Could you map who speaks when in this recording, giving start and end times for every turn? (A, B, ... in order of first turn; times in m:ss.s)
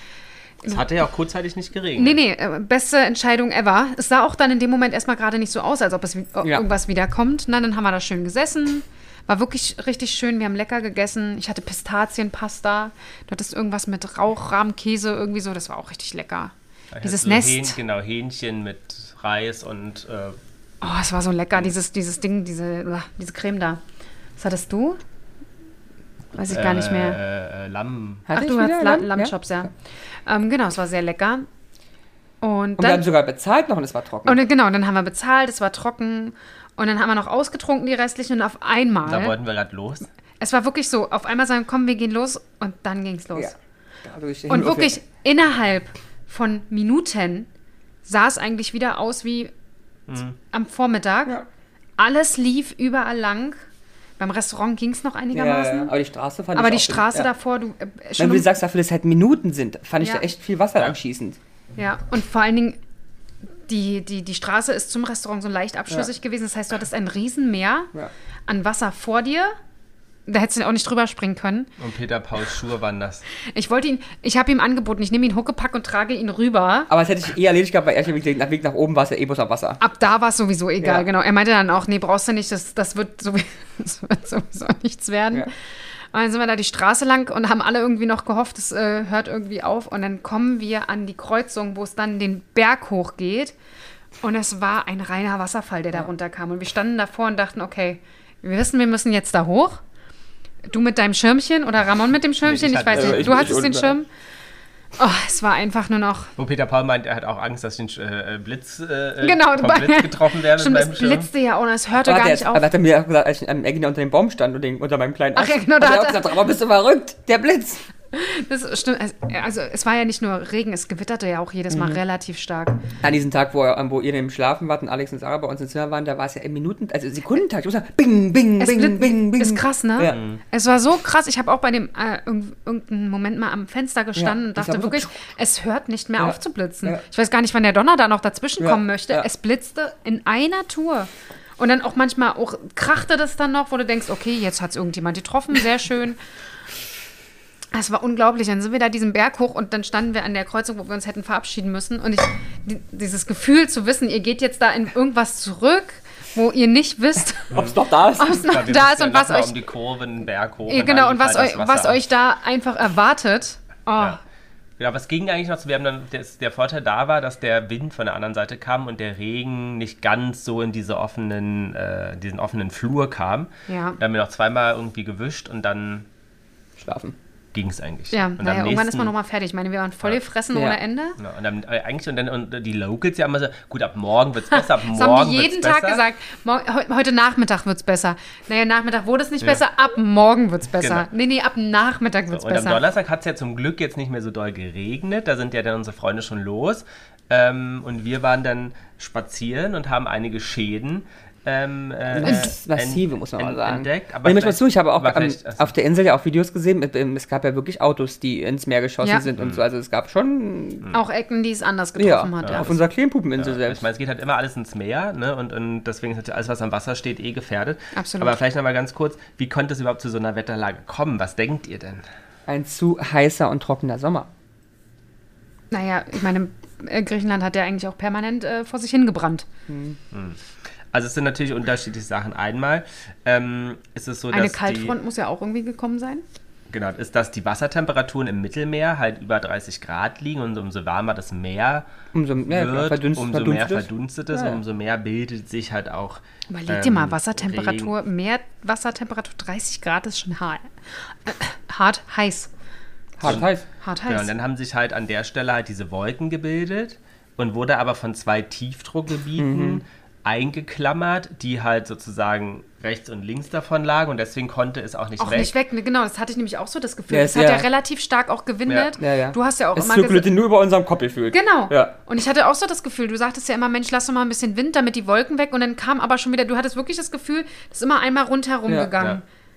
0:00.7-0:02.2 A
0:02.0-0:17.8 B
0:16.9-0:20.4 A
0:20.8-0:23.8 B
0:24.4-0:25.0 B
0:26.3-0:27.2 B
0:26.5-0:28.3 A
0:28.3-0:29.7 C
0:28.3-0:29.7 B
0:30.2-0:31.5 B
0:32.4-0:33.0 B
0:32.8-0:34.4 C
0:34.2-0:39.4 B
0:39.0-0:40.1 A
0:40.4-0:43.5 B
0:44.0-0:45.0 C
0:44.5-0:47.5 B
0:48.0-0:49.5 B
0:50.1-0:50.4 A
0:50.5-0:51.4 B
0:52.0-0:53.6 B
0:54.2-0:55.9 B
0:55.3-0:57.3 C
0:56.6-0:58.5 B
0:58.2-1:01.4 C
1:01.8-1:02.8 B
1:03.7-1:07.9 B
1:08.5-1:09.6 B
1:10.3-1:11.7 B
1:11.8-1:13.2 A
1:13.5-1:16.9 B
1:16.9-1:19.8 C
1:19.8-1:25.5 B
1:20.8-1:21.1 C
1:26.1-1:33.5 B
1:34.2-1:39.8 B
1:40.6-1:44.1 B
1:42.4-1:43.6 A
1:42.9-1:44.0 C
1:45.0-1:46.3 B
1:46.4-1:51.3 A
1:49.2-1:52.7 B
1:52.0-1:57.8 C
1:55.4-1:56.4 B
1:58.1-2:02.9 B
2:01.7-2:02.0 C
2:03.0-2:10.2 C
2:08.6-2:26.2 B
2:10.1-2:10.4 A
2:14.2-2:15.2 C
2:16.2-2:17.0 C
2:27.7-2:37.7 B
2:37.5-2:38.5 C
2:38.2-2:39.7 B
2:38.3-2:42.1 A
2:40.7-2:44.2 B
2:44.8-2:56.1 A
2:53.7-2:54.0 B
2:56.8-2:57.2 C
2:57.5-2:59.1 A
2:58.1-3:01.2 B
3:00.5-3:00.8 C
3:01.2-3:06.0 A
3:04.5-3:12.8 B
3:10.8-3:11.1 A
3:12.3-3:25.7 A
3:22.1-3:30.9 C
3:22.2-3:22.5 B
3:30.9-3:32.7 B
3:32.0-3:33.8 C
3:32.4-3:32.7 A
3:33.4-3:42.1 A
3:38.0-3:38.4 B
3:42.5-3:44.3 C
3:45.7-3:49.5 B
3:49.7-3:50.0 C
3:50.1-3:50.4 A
3:50.9-3:55.0 A
3:54.3-3:56.2 B
3:56.7-4:07.9 A
4:02.1-4:04.6 C
4:06.5-4:10.7 B
4:11.2-4:12.5 B
4:13.2-4:13.6 C
4:13.2-4:13.5 A
4:13.8-4:14.3 B
4:14.1-4:25.5 A
4:19.4-4:19.8 C
4:25.2-4:30.3 B
4:27.1-4:27.7 C
4:28.7-4:29.0 A
4:29.0-4:32.0 C
4:31.3-4:39.2 B
4:38.7-4:38.9 C